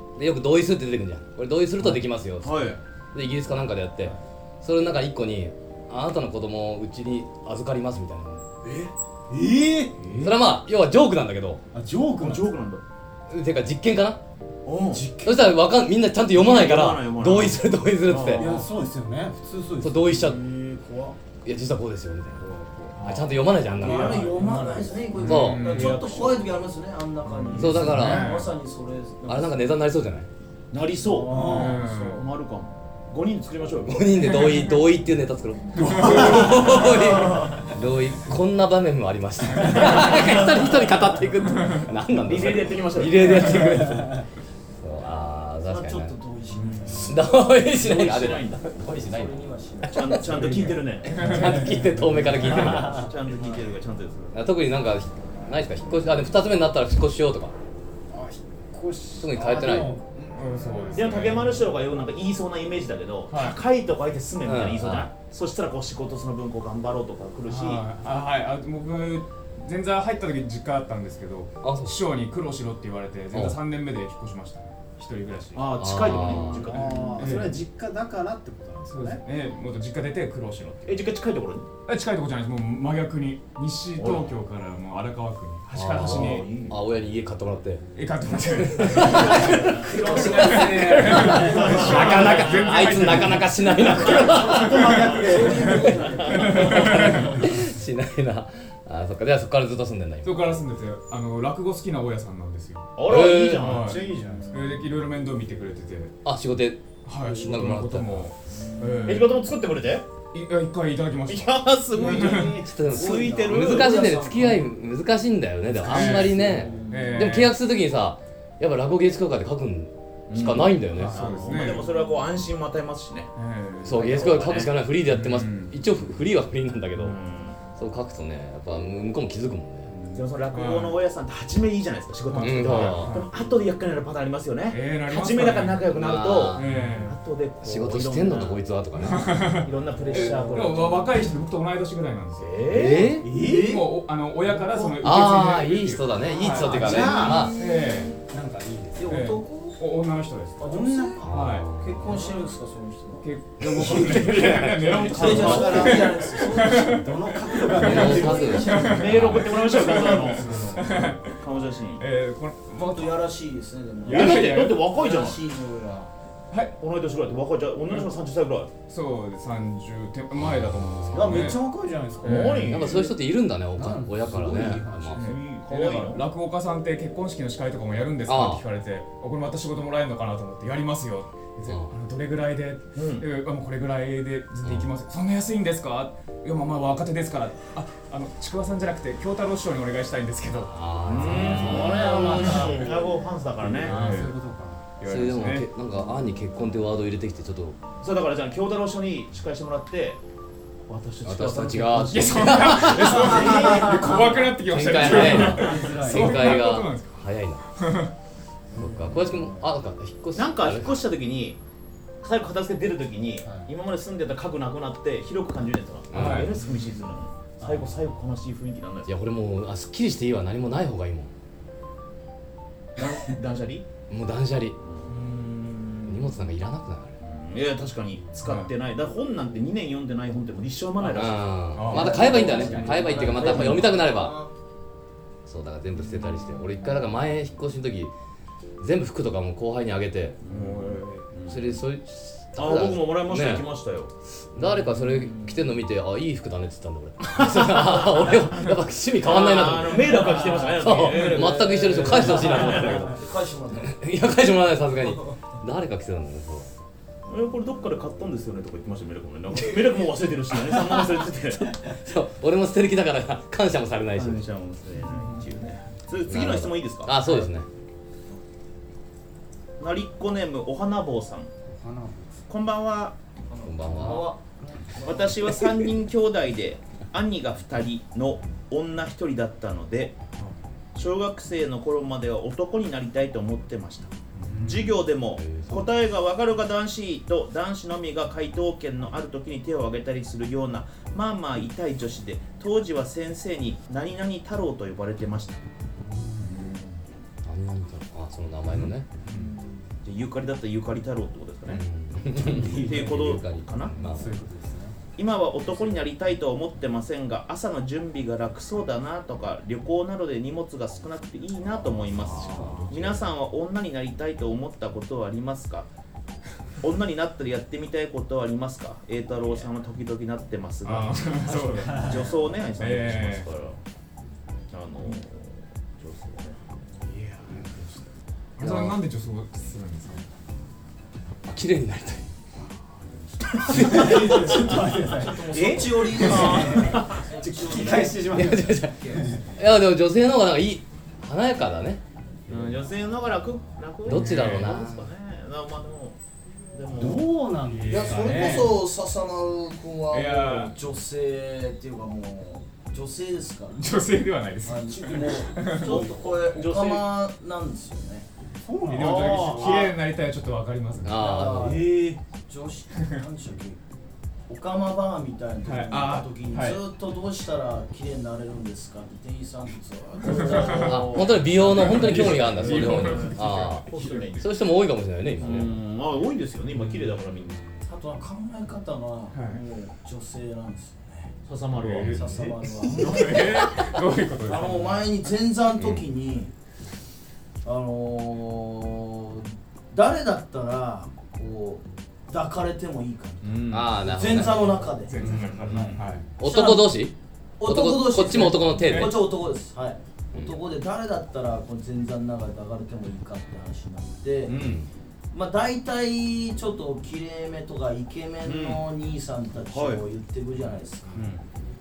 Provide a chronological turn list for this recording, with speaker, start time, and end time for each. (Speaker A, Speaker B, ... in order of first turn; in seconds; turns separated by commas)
Speaker A: 0.2-8.4, Speaker B: 2.4-2.8, Speaker B: 8.6-8.9, Speaker C: 9.3-10.0, Speaker B: 10.0-10.3, Speaker A: 10.2-11.6, Speaker C: 11.7-12.5, Speaker B: 12.2-12.8, Speaker A: 13.3-14.2, Speaker B: 14.7-15.1, Speaker C: 14.9-15.6, Speaker A: 15.2-18.6, Speaker B: 16.3-18.6, Speaker C: 18.4-21.1, Speaker A: 19.8-20.4, Speaker D: 20.4-21.1, Speaker A: 21.4-22.5, Speaker B: 22.6-23.2, Speaker E: 23.0-23.3, Speaker A: 23.0-24.3, Speaker D: 23.8-29.8, Speaker B: 23.8-24.8, Speaker C: 23.8-25.1, Speaker A: 25.2-25.8, Speaker E: 25.2-26.0, Speaker B: 25.5-26.6, Speaker B: 27.3-27.9, Speaker E: 27.6-28.5, Speaker A: 27.6-28.4, Speaker A: 29.3-30.3, Speaker B: 30.7-34.1, Speaker D: 31.0-32.3, Speaker C: 31.3-31.8, Speaker E: 31.4-32.2, Speaker A: 33.9-46.1, Speaker E: 35.8-36.4, Speaker C: 36.0-36.5, Speaker D: 36.2-37.6, Speaker B: 42.2-43.6, Speaker C: 43.6-44.2, Speaker D: 45.6-47.4, Speaker B: 46.6-48.7, Speaker A: 47.0-50.0, Speaker D: 48.8-50.6, Speaker B: 49.8-51.3, Speaker C: 50.3-53.1, Speaker A: 51.0-53.1, Speaker E: 51.2-51.6, Speaker B: 52.6-54.4, Speaker A: 54.3-57.5, Speaker C: 58.1-60.4, Speaker A: 59.2-59.9, Speaker E: 60.2-61.7, Speaker B: 60.9-67.8, Speaker E: 63.3-63.6, Speaker A: 64.5-65.1, Speaker E: 67.5-76.4, Speaker A: 71.6-72.0, Speaker A: 73.3-73.6, Speaker B: 75.5-77.4, Speaker A: 75.8-76.8, Speaker C: 76.6-79.2, Speaker E: 77.2-77.6, Speaker E: 78.9-81.1, Speaker B: 80.9-81.7, Speaker E: 81.9-86.5, Speaker B: 84.0-84.3, Speaker A: 85.7-87.9, Speaker B: 85.9-86.8, Speaker E: 87.9-93.6, Speaker A: 88.6-94.9, Speaker B: 89.0-92.3, Speaker D: 89.3-91.1, Speaker C: 91.1-92.3, Speaker C: 93.9-96.0, Speaker D: 94.0-97.5, Speaker E: 94.5-95.0, Speaker E: 95.6-97.4, Speaker B: 95.7-96.6, Speaker A: 96.5-100.5, Speaker C: 96.8-97.6, Speaker E: 100.2-103.0, Speaker B: 103.0-104.0, Speaker A: 103.0-103.7, Speaker E: 103.6-106.1, Speaker C: 103.7-104.6, Speaker D: 104.0-104.8, Speaker A: 106.2-108.3, Speaker E: 107.0-109.4, Speaker D: 108.5-109.2, Speaker B: 109.0-110.0, Speaker E: 110.3-112.6, Speaker B: 111.3-114.1, Speaker C: 112.0-112.7, Speaker D: 112.0-114.7, Speaker A: 112.6-121.2, Speaker D: 115.8-117.3, Speaker E: 115.8-117.6, Speaker B: 120.3-123.3, Speaker C: 121.0-121.8, Speaker E: 121.0-121.9, Speaker E: 123.3-124.3, Speaker A: 123.8-127.2, Speaker B: 123.9-124.7, Speaker E: 125.1-125.8, Speaker B: 127.0-127.6, Speaker A: 127.8-129.9, Speaker E: 129.9-131.0, Speaker B: 130.1-138.7, Speaker E: 132.3-133.3, Speaker A: 132.4-133.2, Speaker E: 134.7-135.9, Speaker A: 135.9-136.7, Speaker E: 136.5-137.2, Speaker A: 137.6-139.4, Speaker E: 139.0-148.2, Speaker B: 139.5-141.2, Speaker B: 142.4-143.2, Speaker A: 142.7-143.3, Speaker C: 143.2-143.9, Speaker D: 143.2-144.0, Speaker C: 144.5-145.0, Speaker A: 145.0-147.6, Speaker D: 146.4-148.0, Speaker C: 146.4-149.3, Speaker D: 149.0-149.8, Speaker E: 149.1-150.6, Speaker D: 150.6-160.9, Speaker C: 150.6-151.3, Speaker A: 151.2-152.1, Speaker E: 151.2-151.8, Speaker E: 153.2-161.4, Speaker A: 153.6-156.2, Speaker B: 154.9-155.9, Speaker C: 155.0-158.8, Speaker A: 157.7-159.5, Speaker B: 158.8-162.0, Speaker C: 160.3-160.6, Speaker E: 162.0-163.3, Speaker D: 162.8-166.1, Speaker E: 164.1-164.9, Speaker B: 164.1-165.4, Speaker E: 166.5-166.8, Speaker B: 166.8-168.7, Speaker E: 168.9-171.6, Speaker A: 170.6-171.4, Speaker C: 171.1-173.1, Speaker E: 172.2-172.9, Speaker B: 172.2-173.1, Speaker A: 172.6-175.3, Speaker C: 173.8-175.2, Speaker E: 175.2-192.7, Speaker B: 175.2-176.2, Speaker A: 178.3-178.6, Speaker B: 182.9-183.3, Speaker A: 184.6-184.9, Speaker A: 190.7-192.4, Speaker B: 191.0-194.0, Speaker C: 191.2-194.9, Speaker D: 192.1-192.9, Speaker E: 193.7-194.4, Speaker E: 195.0-195.7, Speaker A: 195.1-197.8, Speaker B: 198.0-200.2, Speaker B: 200.9-203.1, Speaker A: 201.2-207.6, Speaker E: 202.1-208.1, Speaker C: 203.0-206.6, Speaker D: 203.6-204.0, Speaker D: 208.8-209.6, Speaker A: 208.8-211.0, Speaker B: 210.3-211.6, Speaker B: 212.2-219.1, Speaker C: 213.4-213.7, Speaker A: 216.1-216.6, Speaker E: 216.1-216.7, Speaker C: 217.6-218.1, Speaker A: 219.1-221.3, Speaker B: 223.0-223.9, Speaker A: 224.1-224.8, Speaker B: 224.8-225.2, Speaker D: 225.1-226.1, Speaker A: 226.0-227.2, Speaker B: 227.2-234.1, Speaker E: 228.4-228.7, Speaker A: 231.1-234.4, Speaker E: 231.7-232.4, Speaker D: 231.9-234.5, Speaker A: 235.5-238.1, Speaker D: 236.1-236.7, Speaker A: 238.8-240.4, Speaker B: 240.4-241.8, Speaker E: 240.5-241.3, Speaker A: 241.5-243.7, Speaker B: 242.6-244.1, Speaker A: 244.5-253.2, Speaker D: 244.6-245.7, Speaker B: 247.4-248.4, Speaker B: 249.2-253.1, Speaker D: 249.8-254.0, Speaker A: 253.8-256.7, Speaker D: 255.0-255.4, Speaker B: 257.3-261.7, Speaker A: 261.8-264.5, Speaker B: 264.1-267.1, Speaker A: 266.3-267.7, Speaker B: 269.8-271.5, Speaker C: 271.7-272.5, Speaker B: 272.5-273.2, Speaker D: 273.5-274.4, Speaker A: 273.6-274.3, Speaker D: 274.9-275.5, Speaker B: 275.0-280.2, Speaker B: 280.9-295.6, Speaker E: 284.4-284.7, Speaker C: 284.5-285.0, Speaker A: 285.4-285.9, Speaker C: 296.0-296.8, Speaker E: 296.5-296.8, Speaker A: 297.4-299.1, Speaker D: 299.3-299.9, Speaker B: 300.0-301.8, Speaker A: 301.7-304.3, Speaker C: 302.4-303.3, Speaker B: 302.5-304.0, Speaker C: 304.0-305.0, Speaker B: 305.2-315.9, Speaker A: 312.1-313.1, Speaker C: 312.4-313.0, Speaker B: 316.8-323.8, Speaker E: 320.8-323.5, Speaker C: 321.9-322.2, Speaker B: 324.7-326.8, Speaker E: 327.2-327.6, Speaker E: 328.6-330.3, Speaker A: 328.6-329.0, Speaker A: 331.5-332.2, Speaker A: 333.6-334.7, Speaker C: 333.6-339.4, Speaker D: 333.7-339.4, Speaker B: 335.5-337.2, Speaker E: 336.2-336.5, Speaker A: 338.2-342.0, Speaker B: 342.5-346.2, Speaker A: 344.1-345.1, Speaker E: 344.1-344.8, Speaker B: 346.7-347.3, Speaker C: 346.9-348.8, Speaker E: 347.7-348.8, Speaker D: 347.9-354.0, Speaker E: 350.1-350.7, Speaker E: 353.8-356.1, Speaker D: 354.6-358.3, Speaker B: 355.8-357.1, Speaker C: 358.6-359.8, Speaker E: 358.9-361.5, Speaker B: 359.0-359.9, Speaker D: 359.5-359.9, Speaker A: 361.0-361.9, Speaker D: 361.1-363.8, Speaker B: 361.6-362.2, Speaker D: 364.5-371.2, Speaker E: 365.6-366.8, Speaker B: 370.2-374.5, Speaker E: 370.2-374.4, Speaker A: 370.7-375.8, Speaker B: 375.4-377.6, Speaker E: 376.8-377.1, Speaker D: 377.9-381.3, Speaker E: 379.3-379.6, Speaker B: 381.5-382.6, Speaker E: 381.8-385.3, Speaker D: 382.1-383.9, Speaker C: 382.9-383.3, Speaker D: 384.4-386.5, Speaker D: 387.6-397.0, Speaker B: 393.4-394.0, Speaker A: 393.7-394.9, Speaker E: 394.2-396.4, Speaker B: 395.4-396.0, Speaker A: 396.4-399.3, Speaker D: 397.6-404.6, Speaker E: 398.7-399.2, Speaker A: 400.3-400.6, Speaker B: 404.5-404.9, Speaker D: 405.3-411.3, Speaker B: 408.4-408.8, Speaker B: 409.7-410.0, Speaker B: 411.1-411.4